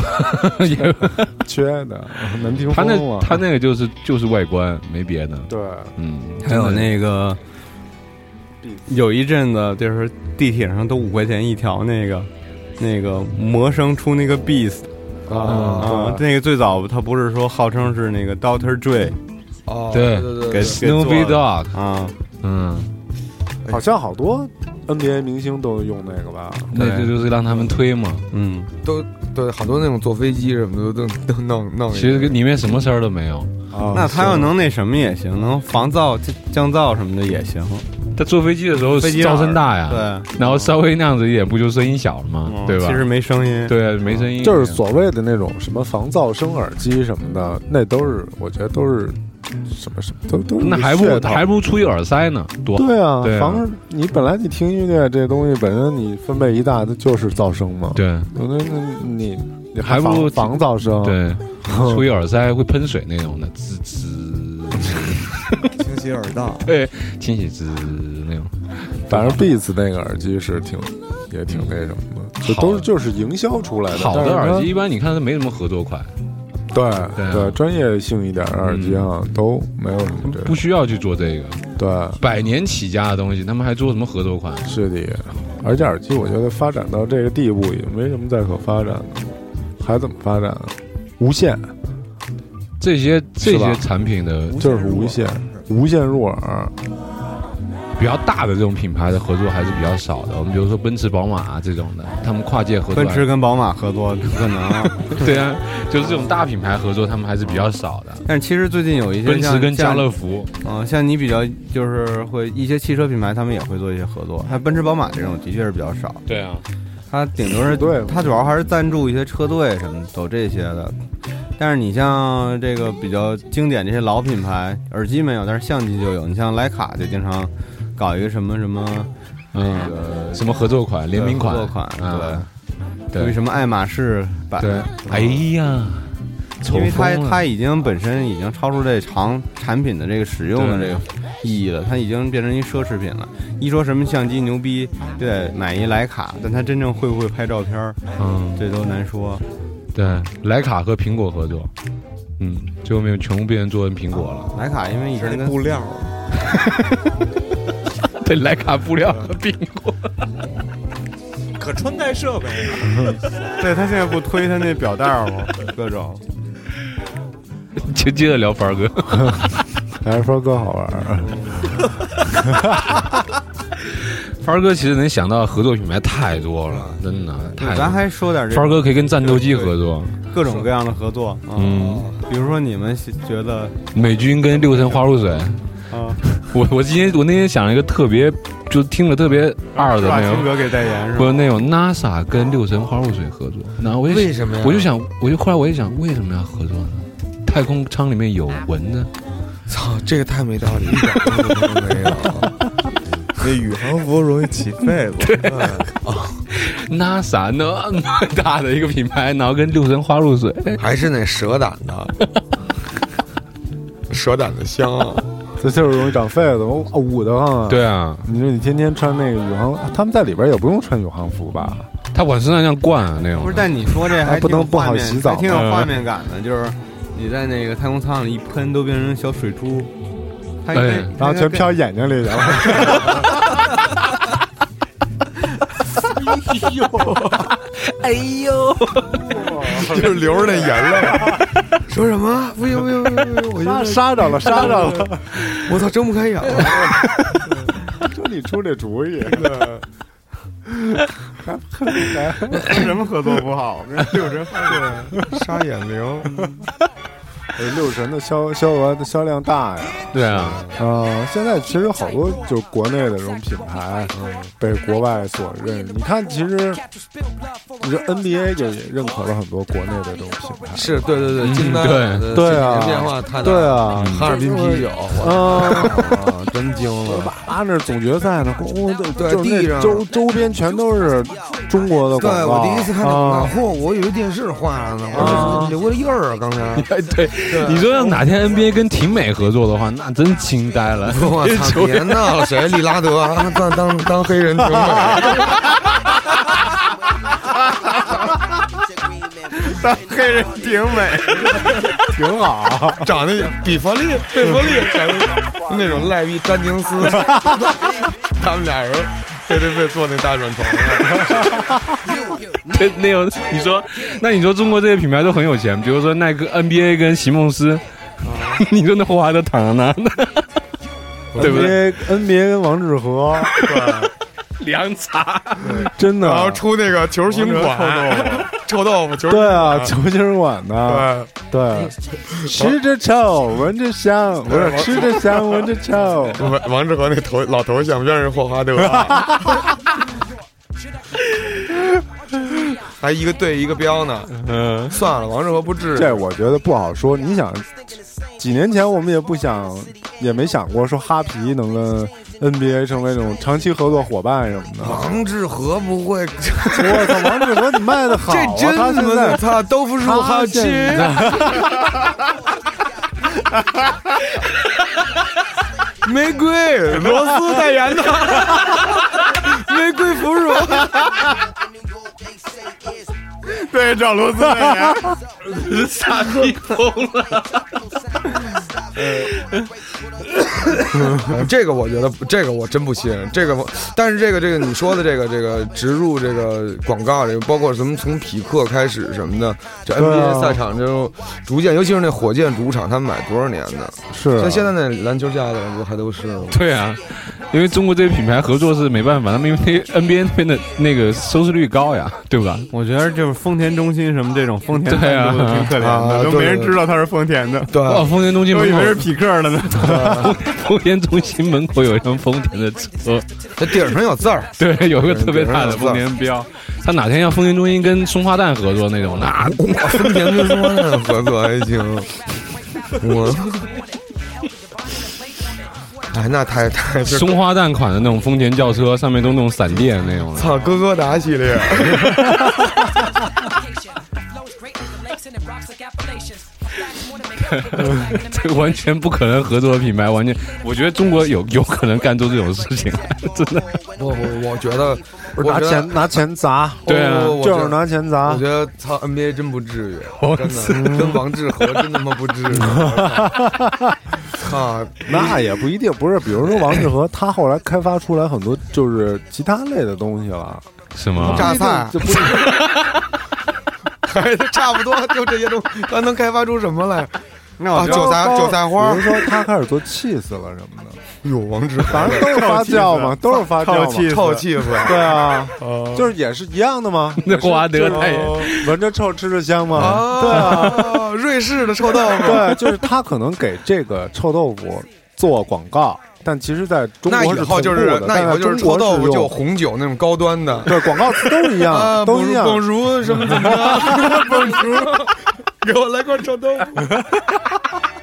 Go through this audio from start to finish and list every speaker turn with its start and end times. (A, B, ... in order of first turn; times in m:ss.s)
0:00.2-0:01.3 A
0:01.4-0:03.4 B
0:02.4-0:07.0 A
0:05.5-0:05.9 B
0:06.4-0:07.4 C
0:08.9-0:14.9 C
0:15.3-0:16.0 D
0:15.4-0:19.2 C
0:15.5-0:15.9 A
0:15.8-0:16.2 B
0:19.7-0:20.8 D
0:19.9-0:21.7 A
0:20.5-0:22.2 C
0:22.4-0:22.9 A
0:23.7-0:27.1 B
0:26.7-0:28.3 A
0:28.3-0:28.7 C
0:28.8-0:32.4 D
0:31.9-0:34.4 A
0:33.7-0:34.5 B
0:33.9-0:37.9 C
0:38.1-0:43.1 A
0:38.9-0:40.7 C
0:42.4-0:43.8 C
0:43.7-0:44.8 A
0:44.4-0:51.4 B
0:50.6-0:53.6 A
0:52.7-1:02.0 B
0:58.0-0:58.3 A
0:59.8-1:05.5 A
1:05.8-1:06.7 E
1:06.6-1:09.5 A
1:09.1-1:14.7 B
1:11.5-1:11.8 A
1:12.4-1:12.9 A
1:13.9-1:16.1 A
1:16.7-1:20.6 B
1:17.2-1:17.6 A
1:18.6-1:19.1 A
1:20.2-1:21.6 A
1:21.8-1:22.2 B
1:22.2-1:24.7 A
1:24.6-1:31.7 B
1:32.8-1:34.6 A
1:33.4-1:33.8 B
1:34.5-1:35.7 E
1:34.6-1:36.7 B
1:38.0-1:43.3 A
1:42.9-1:45.2 C
1:45.0-1:48.2 A
1:48.2-1:56.2 C
1:49.2-1:50.5 A
1:56.3-1:56.7 A
1:57.1-2:01.0 C
1:57.6-1:58.3 B
2:01.6-2:10.4 C
2:09.5-2:12.5 A
2:11.1-2:12.5 C
2:13.2-2:15.5 C
2:14.6-2:17.4 A
2:16.6-2:28.0 C
2:20.5-2:21.0 A
2:28.2-2:28.6 A
2:28.6-2:29.4 C
2:29.9-2:31.7 A
2:32.4-2:34.5 A
2:34.5-2:35.7 C
2:35.1-2:36.1 E
2:36.5-2:36.8 A
2:38.2-2:40.1 A
2:41.6-2:43.2 E
2:43.6-2:46.2 C
2:47.8-2:49.6 A
2:50.0-2:51.4 B
2:52.5-2:52.8 B
2:54.4-3:00.2 A
2:57.5-3:05.0 C
3:01.6-3:02.1 A
3:01.8-3:02.2 D
3:03.9-3:05.6 A
3:05.9-3:06.2 C
3:06.2-3:10.6 A
3:09.8-3:11.4 C
3:11.2-3:19.1 A
3:14.0-3:14.9 D
3:19.7-3:22.6 D
3:23.4-3:25.8 E
3:25.2-3:25.9 A
3:25.4-3:26.4 D
3:26.5-3:30.8 A
3:30.8-3:32.2 D
3:34.1-3:35.3 D
3:35.6-3:41.9 B
3:37.7-3:38.3 A
3:42.1-3:44.1 A
3:43.4-3:49.9 C
3:44.2-3:45.7 B
3:45.5-3:46.0 A
3:50.6-3:51.8 C
3:50.7-3:51.2 A
3:51.2-3:53.3 B
3:56.1-3:59.5 A
3:59.3-4:00.9 B
3:59.7-4:07.5 D
4:03.6-4:05.2 B
4:08.0-4:09.5 B
4:09.3-4:09.8 D
4:11.4-4:12.8 B
4:12.5-4:14.9 C
4:14.2-4:16.4 D
4:17.6-4:20.2 B
4:20.1-4:20.7 A
4:20.2-4:20.8 D
4:20.7-4:26.8 B
4:24.1-4:24.5 D
4:27.8-4:31.1 B
4:30.7-4:37.3 D
4:31.4-4:32.3 A
4:32.3-4:43.6 B
4:34.0-4:34.3 A
4:39.1-4:40.1 D
4:42.1-4:46.9 D
4:45.1-4:45.8 B
4:45.2-4:45.6 A
4:46.8-4:52.5 A
4:47.4-4:48.3 D
4:51.0-4:55.7 D
4:54.7-4:55.5 B
4:59.5-5:01.8 C
5:02.0-5:03.1 B
5:03.0-5:11.7 D
5:12.6-5:20.5 A
5:21.3-5:21.8 D
5:21.4-5:23.6 B
5:21.4-5:22.0 A
5:23.4-5:25.9 A
5:23.6-5:24.1 D
5:25.6-5:30.0 D
5:25.8-5:26.6 B
5:27.3-5:28.5 C
5:29.3-5:36.5 B
5:30.8-5:31.3 D
5:32.3-5:32.8 D
5:34.5-5:35.1 D
5:36.3-5:39.8 D
5:43.0-5:46.3 D
5:44.4-5:45.0 A
5:45.9-5:55.1 B
5:54.8-5:57.6 D
5:56.7-6:01.7 B
5:58.2-6:01.6 D
6:06.0-6:11.1 D
6:13.5-6:15.1 C
6:15.4-6:17.6 A
6:16.2-6:16.6 D
6:19.0-6:19.4 D
6:20.8-6:36.6 D
6:21.0-6:21.3 B
6:29.9-6:30.6 B
6:34.1-6:34.7 B
6:36.5-6:42.7 A
6:42.7-6:50.2 C
6:44.8-6:45.8 A
6:45.8-6:46.9 D
6:47.7-6:48.2 D
6:47.8-6:49.1 A
6:49.8-6:50.5 D
6:49.8-6:54.0 A
6:53.6-6:56.1 D
6:54.6-7:00.8 A
6:59.4-7:02.2 D
7:02.9-7:03.7 D
7:06.1-7:07.5 D
7:07.0-7:10.8 A
7:10.3-7:12.5 D
7:12.0-7:12.6 A
7:17.4-7:23.8 A
7:24.0-7:26.1 D
7:25.4-7:28.4 B
7:26.8-7:33.4 D
7:26.9-7:27.4 A
7:30.2-7:31.9 A
7:30.7-7:31.2 B
7:32.5-7:34.0 B
7:34.3-7:35.4 D
7:35.0-7:42.6 B
7:41.0-7:41.6 A
7:41.2-7:42.6 D
7:42.1-7:42.8 A
7:44.0-7:49.3 D
7:47.6-7:48.2 C
7:47.8-7:51.0 B
7:51.2-7:52.4 D
7:51.9-7:54.2 B
7:52.1-7:54.7 C
7:54.0-7:56.1 D
7:54.8-8:01.0 B
7:57.2-7:58.7 A
7:57.8-7:58.5 D
7:59.7-8:00.8 A
7:59.7-8:02.6 D
8:02.2-8:09.3 B
8:07.1-8:17.0 D
8:10.7-8:12.7 B